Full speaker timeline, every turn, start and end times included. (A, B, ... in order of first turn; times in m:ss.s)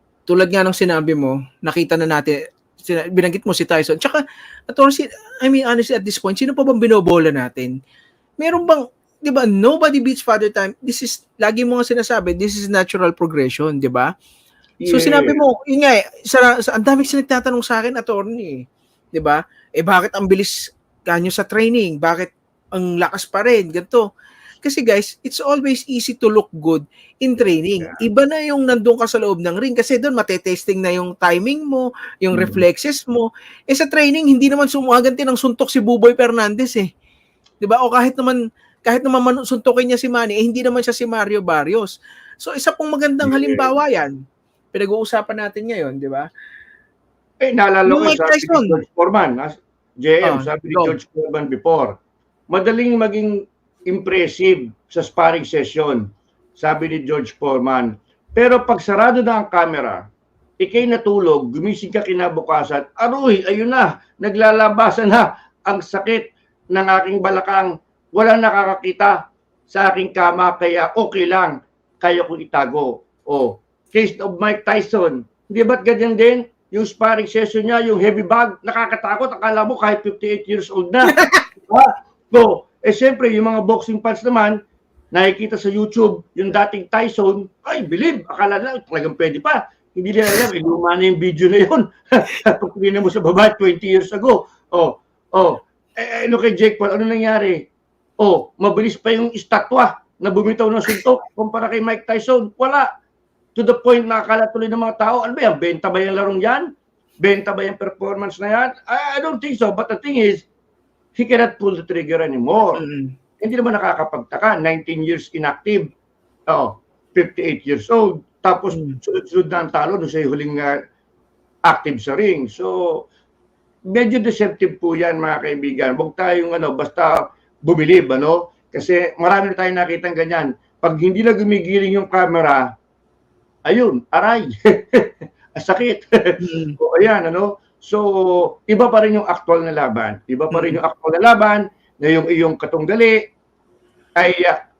0:00.3-0:07.7 A
0:08.4-0:14.1 A
0:14.8-0:15.4 B
0:14.9-0:24.0 A
0:24.6-0:36.9 A
0:27.8-0:28.0 B
0:32.3-0:32.6 B
0:37.6-0:41.9 A
0:42.4-0:44.1 A
0:43.2-0:43.7 B
0:44.7-0:46.3 A
0:47.4-0:52.0 B
0:47.9-0:48.8 A
0:50.2-0:50.9 A
0:52.5-0:56.0 B
0:56.6-1:00.0 B
1:00.6-1:09.2 B
1:09.7-1:24.6 B
1:25.1-1:37.7 B
1:38.2-1:42.9 B
1:43.6-1:46.7 B
1:47.2-1:50.4 B
1:51.2-1:52.8 B
1:52.8-1:53.1 A
1:53.4-1:55.9 B
1:56.5-2:00.8 B
2:01.6-2:03.0 B
2:03.9-2:12.7 B
2:13.6-2:23.3 B
2:16.4-2:16.8 A
2:20.5-2:20.8 A
2:24.2-2:24.6 B